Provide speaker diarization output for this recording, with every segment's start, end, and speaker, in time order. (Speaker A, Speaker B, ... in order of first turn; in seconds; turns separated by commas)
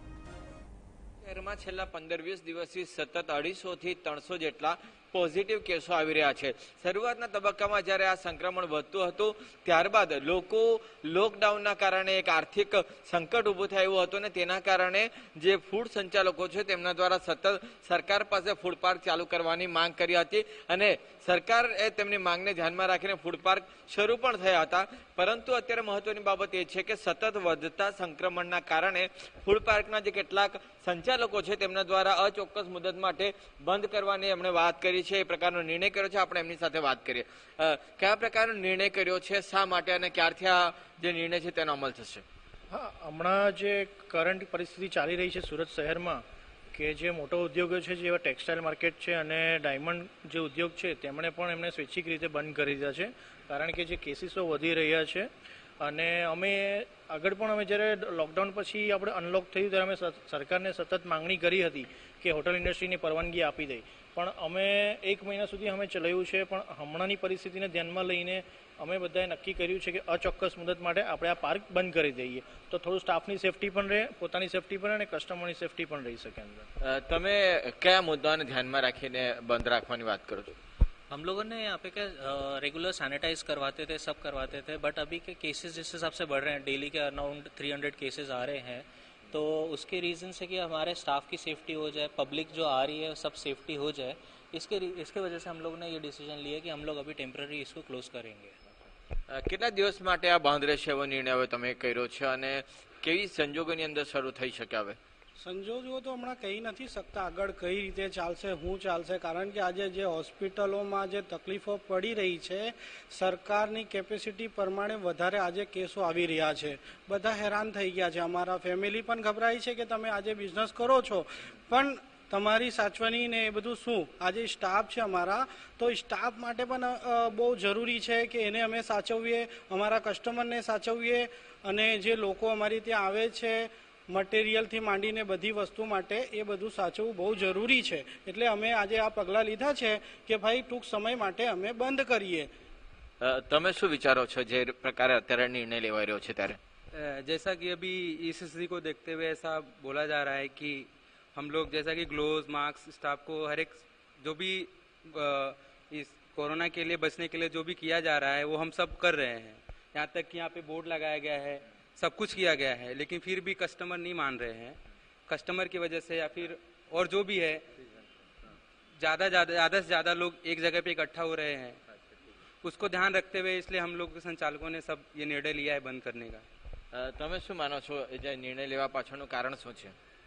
Speaker A: 1.2-42.2, Speaker B: 42.7-46.2, Speaker B: 46.7-55.3, Speaker B: 55.8-76.7, Speaker A: 76.8-80.5, Speaker C: 81.1-98.5, Speaker A: 99.3-105.0, Speaker D: 105.4-142.5, Speaker A: 143.2-146.6, Speaker E: 146.9-167.6, Speaker E: 169.0-171.8, Speaker E: 172.6-176.4, Speaker A: 176.9-179.9